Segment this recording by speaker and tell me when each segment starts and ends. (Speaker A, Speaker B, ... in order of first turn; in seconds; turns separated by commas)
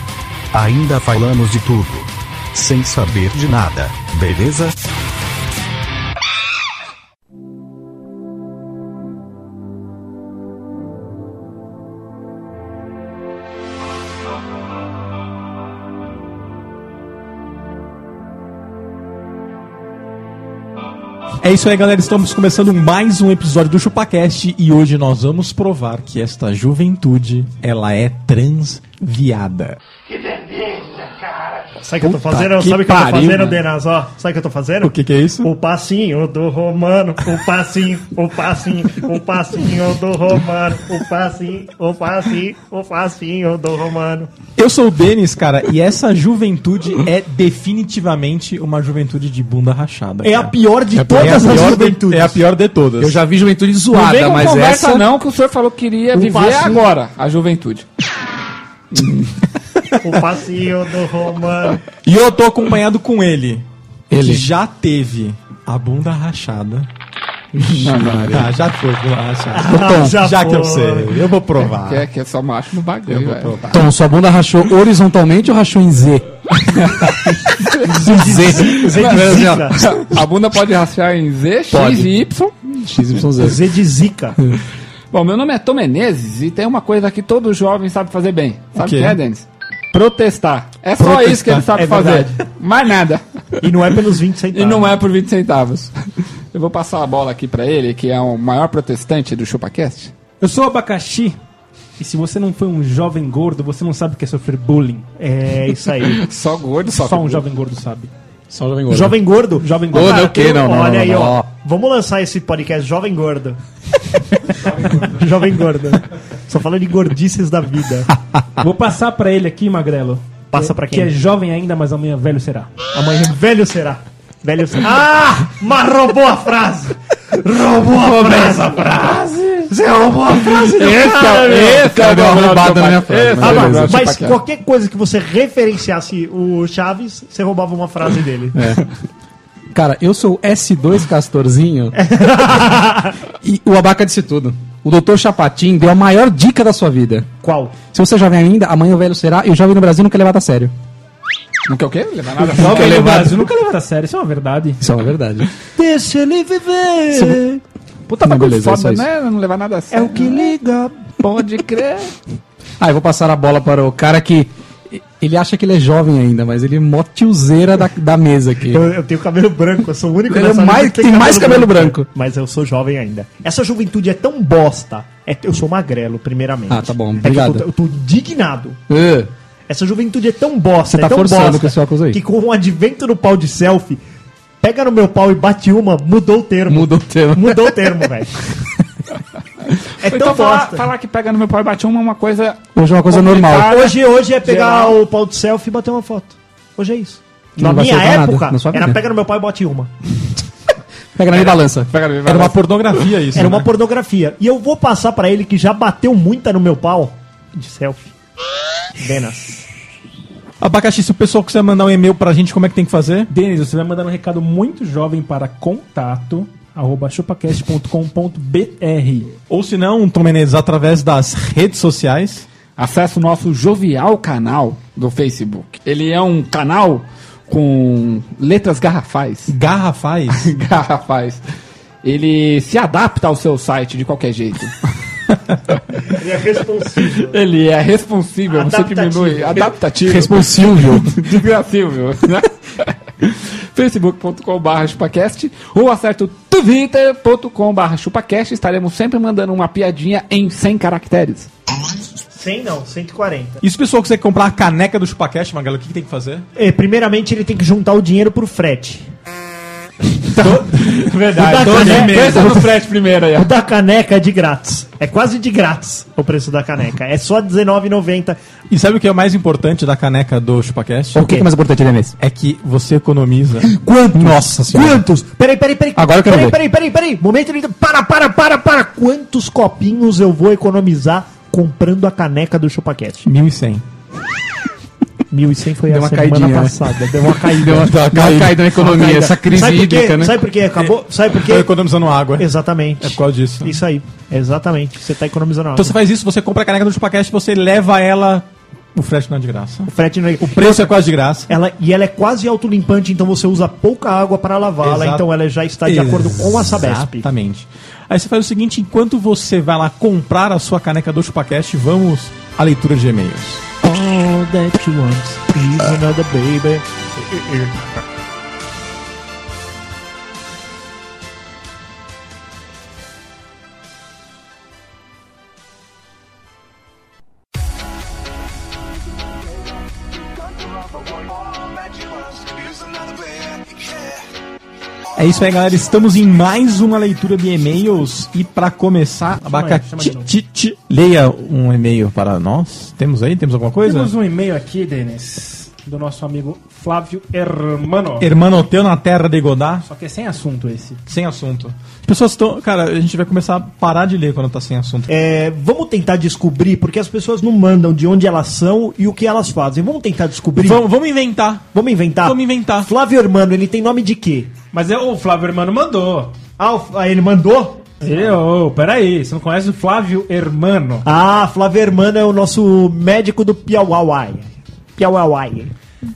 Speaker A: 0.5-4.8, Speaker B: 21.4-29.8, Speaker C: 31.8-44.3, Speaker D: 32.0-33.6, Speaker B: 34.8-35.5, Speaker B: 44.6-50.5, Speaker C: 50.2-52.4, Speaker E: 51.0-51.8, Speaker B: 51.0-53.2, Speaker E: 53.0-55.1, Speaker D: 53.9-57.9, Speaker C: 56.1-56.9, Speaker D: 58.9-59.3, Speaker C: 60.0-61.8, Speaker B: 62.0-66.9, Speaker E: 64.1-64.5, Speaker E: 67.5-68.5, Speaker D: 67.8-68.4, Speaker B: 68.3-72.1, Speaker C: 69.5-71.2, Speaker E: 69.7-70.2, Speaker D: 71.8-73.8, Speaker B: 73.1-73.6, Speaker E: 73.7-76.3, Speaker D: 76.6-77.8, Speaker E: 77.8-79.8, Speaker C: 77.8-79.9, Speaker D: 79.8-82.5, Speaker E: 81.7-82.1, Speaker E: 82.7-83.6, Speaker C: 83.4-84.4, Speaker D: 85.1-93.2, Speaker B: 88.8-89.2, Speaker C: 91.0-92.3, Speaker C: 93.6-95.0, Speaker D: 94.5-96.0, Speaker D: 96.5-100.1, Speaker F: 100.4-101.4, Speaker F: 102.0-105.1, Speaker C: 105.2-106.2, Speaker D: 106.0-107.5, Speaker F: 106.9-108.1, Speaker E: 108.5-109.2, Speaker C: 108.9-113.6, Speaker F: 109.6-110.2, Speaker E: 109.9-111.5, Speaker B: 114.6-115.2, Speaker C: 115.0-118.1, Speaker F: 118.6-122.7, Speaker C: 120.5-121.1, Speaker C: 122.9-131.9, Speaker D: 130.4-134.4, Speaker E: 131.7-134.1, Speaker C: 133.4-138.6, Speaker E: 138.6-138.8, Speaker E: 139.7-141.9, Speaker C: 141.9-143.2, Speaker E: 143.4-147.3, Speaker C: 147.4-147.8, Speaker E: 147.9-150.7, Speaker D: 151.7-153.0, Speaker F: 152.4-154.8, Speaker E: 152.6-153.4, Speaker E: 154.8-155.5, Speaker C: 155.8-157.6, Speaker E: 157.1-157.4, Speaker D: 158.1-160.5, Speaker E: 158.2-159.1, Speaker C: 159.9-161.1, Speaker D: 161.2-162.1, Speaker E: 162.8-168.8, Speaker C: 168.7-178.8, Speaker E: 170.3-172.1, Speaker E: 176.7-177.7, Speaker E: 178.9-179.3, Speaker C: 179.7-184.0, Speaker E: 180.9-182.2, Speaker C: 184.6-188.4, Speaker E: 186.7-187.8, Speaker C: 190.0-190.9, Speaker D: 190.0-195.0, Speaker E: 192.8-193.7, Speaker C: 193.6-199.9, Speaker E: 197.6-199.0, Speaker E: 201.2-201.9, Speaker D: 201.3-203.1, Speaker B: 202.2-203.7, Speaker C: 203.3-208.1, Speaker C: 209.0-209.7, Speaker B: 210.6-213.3, Speaker F: 213.3-219.3, Speaker B: 219.5-222.5, Speaker D: 222.8-229.5, Speaker B: 229.5-230.5, Speaker D: 230.3-231.4, Speaker D: 232.0-234.7, Speaker C: 236.1-237.4, Speaker D: 237.3-251.5, Speaker C: 238.5-239.7, Speaker E: 240.1-241.2, Speaker C: 252.3-253.6, Speaker B: 253.6-256.5, Speaker C: 256.6-259.1, Speaker C: 260.4-262.7, Speaker D: 260.4-263.5, Speaker B: 261.6-262.6, Speaker C: 263.4-268.4, Speaker B: 268.7-271.2, Speaker E: 271.1-272.1, Speaker C: 271.2-271.5, Speaker B: 272.2-273.7, Speaker C: 273.6-283.3, Speaker E: 274.1-275.0, Speaker E: 276.0-276.6, Speaker B: 283.2-283.8, Speaker C: 285.3-291.7, Speaker E: 285.9-286.8, Speaker E: 287.4-290.4, Speaker B: 287.9-288.7, Speaker B: 290.8-292.5, Speaker C: 292.4-296.0, Speaker B: 293.0-293.8, Speaker B: 295.8-299.9, Speaker C: 299.9-300.9, Speaker B: 300.4-301.5, Speaker C: 301.5-307.3, Speaker B: 304.8-305.2, Speaker B: 305.9-313.6, Speaker C: 313.8-317.8, Speaker B: 335.2-344.1, Speaker F: 339.4-340.3, Speaker F: 343.8-348.3, Speaker B: 348.2-349.9, Speaker F: 349.9-351.0, Speaker B: 351.1-355.1, Speaker C: 355.1-360.8, Speaker B: 360.6-361.7, Speaker C: 361.7-364.6, Speaker B: 362.2-362.9, Speaker F: 364.7-366.4, Speaker C: 366.6-367.9, Speaker F: 368.0-371.1, Speaker C: 371.1-375.7